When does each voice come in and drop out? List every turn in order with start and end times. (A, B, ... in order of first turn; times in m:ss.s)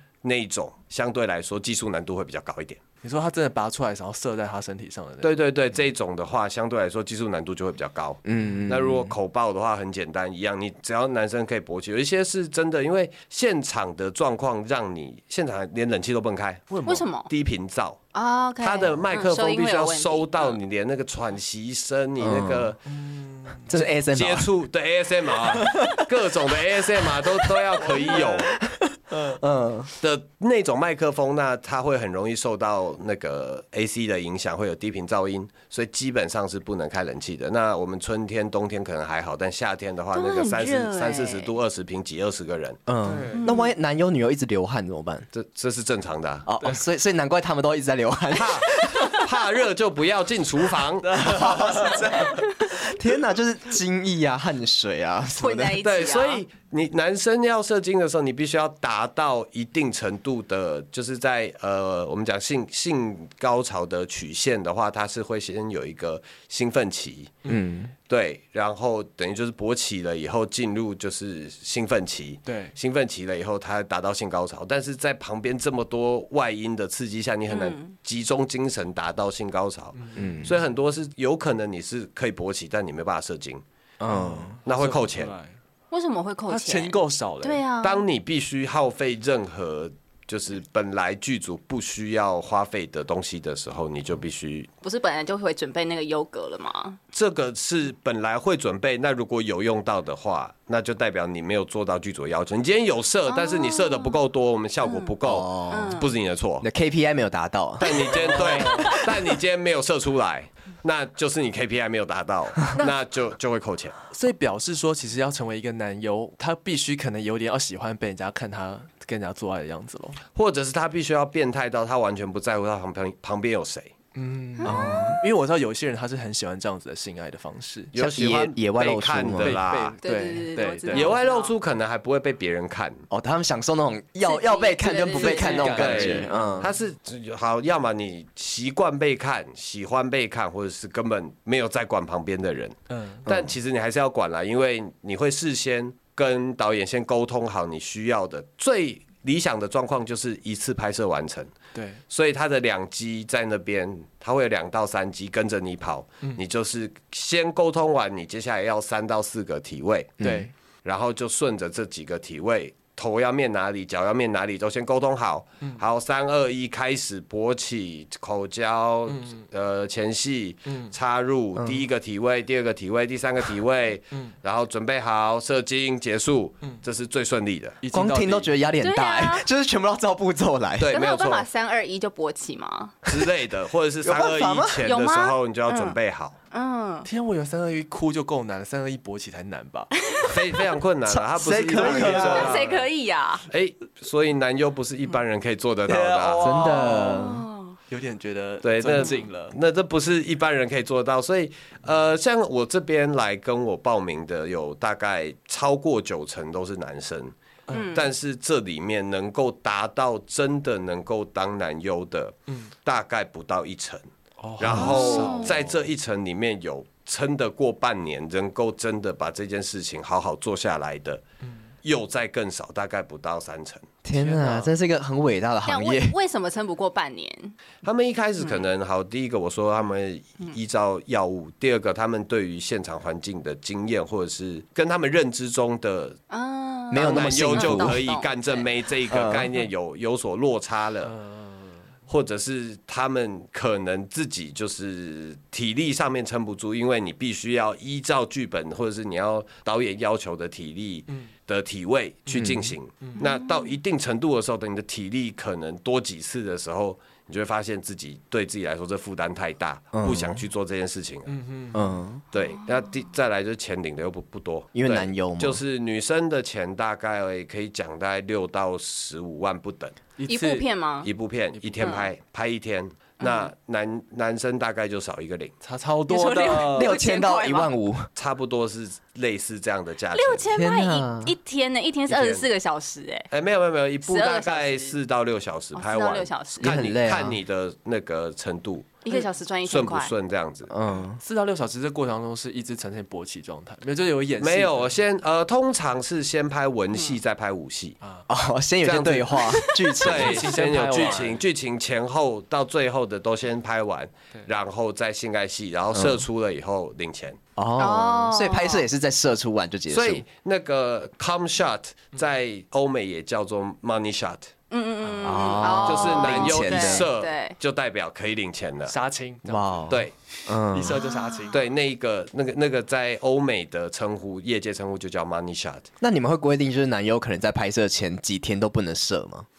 0:00.2-0:02.8 A
0:03.0-0:05.3 B
0:05.2-0:18.0 A
0:08.2-0:09.2 C
0:16.7-0:17.0 B
0:16.8-0:17.3 D
0:18.1-0:20.6 D
0:18.6-0:22.8 A
0:22.2-0:22.7 C
0:22.9-0:23.6 B
0:23.7-0:24.5 C
0:24.1-0:28.5 A
0:25.5-0:26.0 C
0:27.9-0:28.5 B
0:28.6-0:29.9 C
0:29.1-0:29.4 B
0:30.0-0:42.8 A
0:40.1-0:41.5 D
0:42.9-0:45.3 C
0:43.0-0:43.4 B
0:43.3-0:43.7 D
0:45.3-0:46.5 A
0:46.4-0:49.3 C
0:48.3-0:51.3 A
0:51.1-0:52.1 B
0:51.1-0:55.8 C
0:55.4-0:56.4 D
0:55.8-1:07.4 A
1:07.4-1:07.9 C
1:08.1-1:23.6 A
1:12.5-1:12.7 B
1:17.5-1:17.9 D
1:20.0-1:20.5 B
1:20.2-1:20.5 C
1:24.0-1:24.6 C
1:24.1-1:25.6 B
1:24.6-1:25.3 A
1:25.9-1:28.0 D
1:26.5-1:27.6 B
1:27.8-1:34.7 A
1:34.8-1:37.0 D
1:37.1-1:46.6 A
1:43.3-1:44.2 D
1:44.8-1:45.1 D
1:45.2-1:46.0 C
1:45.7-1:46.1 D
1:46.6-1:48.1 C
1:47.8-1:54.0 A
1:47.8-1:49.0 D
1:48.2-1:48.8 B
1:54.1-2:00.2 B
2:00.3-2:03.9 A
2:04.1-2:07.9 B
2:04.6-2:05.2 D
2:04.6-2:05.2 C
2:07.9-2:10.0 A
2:07.9-2:09.6 C
2:09.4-2:11.2 B
2:10.0-2:11.5 D
2:10.9-2:13.0 A
2:13.1-2:16.7 C
2:14.2-2:15.8 D
2:15.2-2:16.7 B
2:15.5-2:31.5 A
2:22.9-2:23.3 B
2:31.7-2:32.0 B
2:32.1-2:40.2 A
2:40.2-2:40.5 C
2:40.2-2:40.5 B
2:40.8-2:57.8 A
2:49.1-2:49.4 B
2:50.7-2:50.9 B
2:57.8-2:58.5 B
2:57.9-3:00.9 C
2:58.8-2:59.4 D
3:00.8-3:01.4 A
3:00.9-3:02.9 D
3:03.0-3:06.3 A
3:04.0-3:04.8 C
3:04.8-3:06.0 D
3:06.5-3:07.1 D
3:07.0-3:09.9 B
3:10.3-3:12.8 A
3:11.1-3:12.6 C
3:11.7-3:12.6 B
3:12.2-3:13.4 D
3:13.5-3:16.5 A
3:15.8-3:17.1 B
3:16.4-3:17.4 C
3:16.5-3:17.8 D
3:17.9-3:19.5 B
3:18.6-3:27.3 A
3:19.0-3:19.2 D
3:27.7-3:28.1 D
3:27.9-3:34.0 A
3:34.4-3:35.8 B
3:34.6-3:41.2 A
3:34.7-3:35.6 D
3:41.8-3:43.9 A
3:44.0-3:46.2 C
3:44.1-3:44.7 B
3:45.7-3:47.6 D
3:47.8-3:56.2 A
3:56.3-3:58.7 D
3:56.9-3:58.0 C
3:56.9-4:01.1 A
3:59.1-3:59.5 C
4:01.0-4:01.7 B
4:02.1-4:21.4 A
4:12.3-4:12.8 C
4:13.2-4:13.7 D
4:19.9-4:20.4 C
4:21.3-4:22.0 B
4:21.7-4:22.2 C
4:22.3-4:30.0 A
4:24.7-4:25.6 C
4:30.2-4:30.7 B
4:30.3-4:31.1 D
4:31.0-4:35.5 A
4:31.5-4:32.0 B
4:31.8-4:32.1 D
4:33.2-4:33.5 D
4:35.6-4:36.9 B
4:36.1-4:37.7 D
4:36.5-4:38.1 C
4:38.2-4:40.5 A
4:40.1-4:43.3 D
4:40.5-4:41.3 C
4:42.1-4:42.5 A
4:43.3-4:49.1 A
4:44.0-4:44.9 D
4:45.7-4:46.7 D
4:46.6-4:47.4 C
4:49.0-4:50.1 D
4:49.6-4:50.7 A
4:50.7-4:51.2 C
4:51.2-4:54.9 B
4:54.4-4:58.0 A
4:58.3-5:00.5 C
4:58.8-5:07.4 A
4:59.5-5:00.0 D
5:00.0-5:01.4 B
5:05.9-5:06.2 C
5:07.6-5:10.2 C
5:07.8-5:08.8 D
5:09.9-5:14.5 A
5:14.7-5:17.6 D
5:15.0-5:15.5 B
5:15.2-5:17.1 C
5:15.8-5:19.0 A
5:18.9-5:19.9 B
5:19.4-5:21.0 C
5:20.5-5:21.6 B
5:20.9-5:21.6 D
5:21.5-5:25.9 A
5:26.0-5:29.4 C